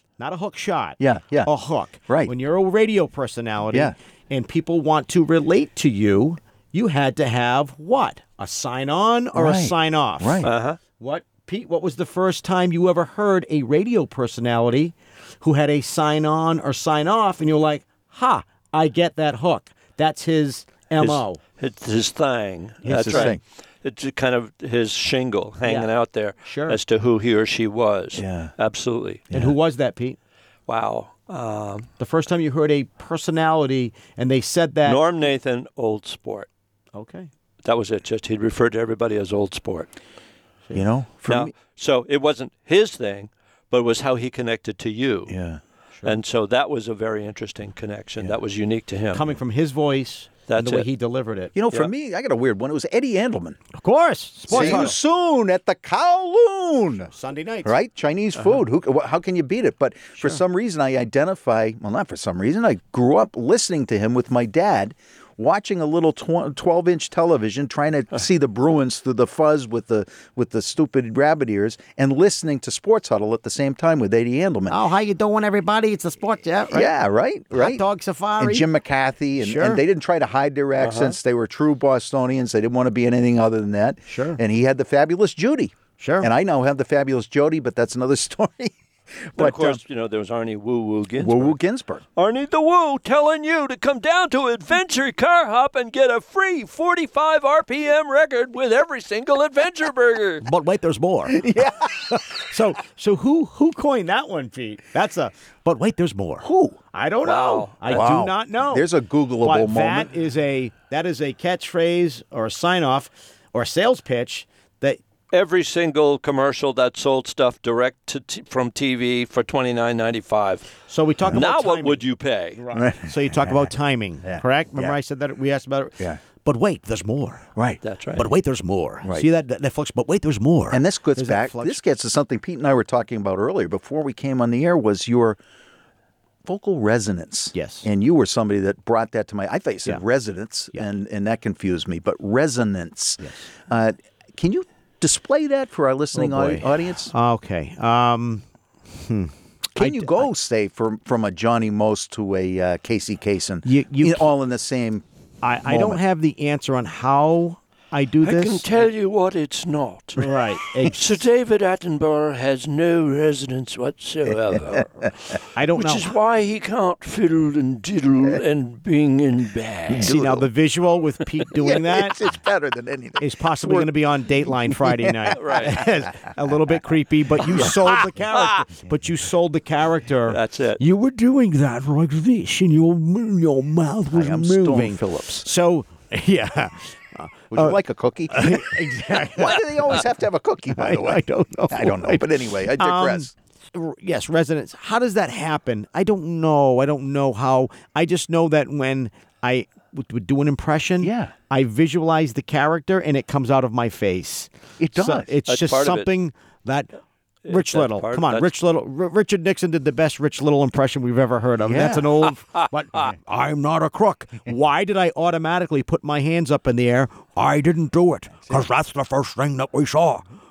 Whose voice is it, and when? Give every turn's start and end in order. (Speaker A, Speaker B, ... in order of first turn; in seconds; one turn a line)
Speaker A: 0.2-10.5
Speaker B: 1.0-1.5
Speaker B: 9.3-10.5
Speaker C: 10.4-10.8
Speaker A: 11.0-21.4
Speaker C: 21.0-29.2
Speaker A: 22.9-23.4
Speaker B: 22.9-23.4
Speaker A: 25.6-25.9
Speaker A: 26.5-26.8
Speaker B: 28.2-28.5
Speaker A: 29.3-30.2
Speaker C: 30.7-31.9
Speaker A: 32.0-35.0
Speaker C: 34.9-36.5
Speaker A: 36.9-37.3
Speaker C: 37.6-39.9
Speaker B: 40.7-41.5
Speaker C: 41.3-45.3
Speaker B: 45.3-45.6
Speaker C: 46.0-49.2
Speaker A: 49.1-51.5
Speaker C: 50.5-50.9
Speaker B: 51.5-53.6
Speaker A: 53.7-55.0
Speaker B: 54.5-57.1
Speaker C: 54.5-54.9
Speaker A: 57.1-57.7
Speaker B: 57.6-74.8
Speaker A: 74.7-76.9
Speaker B: 76.7-77.8
Speaker A: 77.5-78.7
Speaker B: 78.4-89.8
Speaker A: 79.4-79.8
Speaker C: 80.8-81.2
Speaker A: 84.1-84.4
Speaker A: 86.0-86.3
Speaker C: 89.4-91.6
Speaker B: 91.2-92.0
Speaker C: 92.2-100.5
Speaker A: 100.4-108.9
Speaker B: 101.3-102.4
Speaker B: 106.4-106.8
Speaker C: 107.2-108.1
Speaker B: 107.9-110.1
Speaker A: 109.4-115.0
Speaker C: 115.3-120.7
Speaker A: 120.9-122.0
Speaker C: 121.3-122.6
Speaker A: 122.6-127.5
Speaker B: 122.7-123.7
Speaker B: 124.2-125.0
Speaker C: 127.8-128.3
Speaker A: 128.2-131.8
Speaker B: 130.7-135.4
Speaker B: 136.5-147.1
Speaker A: 137.5-137.9
Speaker A: 143.2-143.5
Speaker A: 146.2-150.3
Speaker B: 149.8-155.0
Speaker A: 153.7-154.3
Speaker A: 155.4-158.7
Speaker B: 155.7-156.0
Speaker C: 158.2-170.2
Speaker A: 160.2-161.0
Speaker A: 165.6-166.2
Speaker B: 169.9-170.4
Speaker A: 169.9-172.2
Speaker B: 171.6-173.9
Speaker A: 173.2-187.8
Speaker B: 174.4-175.4
Speaker C: 175.3-175.8
Speaker B: 177.4-178.1
Speaker C: 180.3-180.8
Speaker B: 184.1-185.5
Speaker B: 187.5-193.3
Speaker A: 188.3-190.0
Speaker A: 190.7-206.9
Speaker B: 201.0-201.3
Speaker B: 204.8-205.3
Speaker C: 205.5-206.1
Speaker C: 207.4-208.5
Speaker A: 207.5-220.3
Speaker B: 211.7-212.2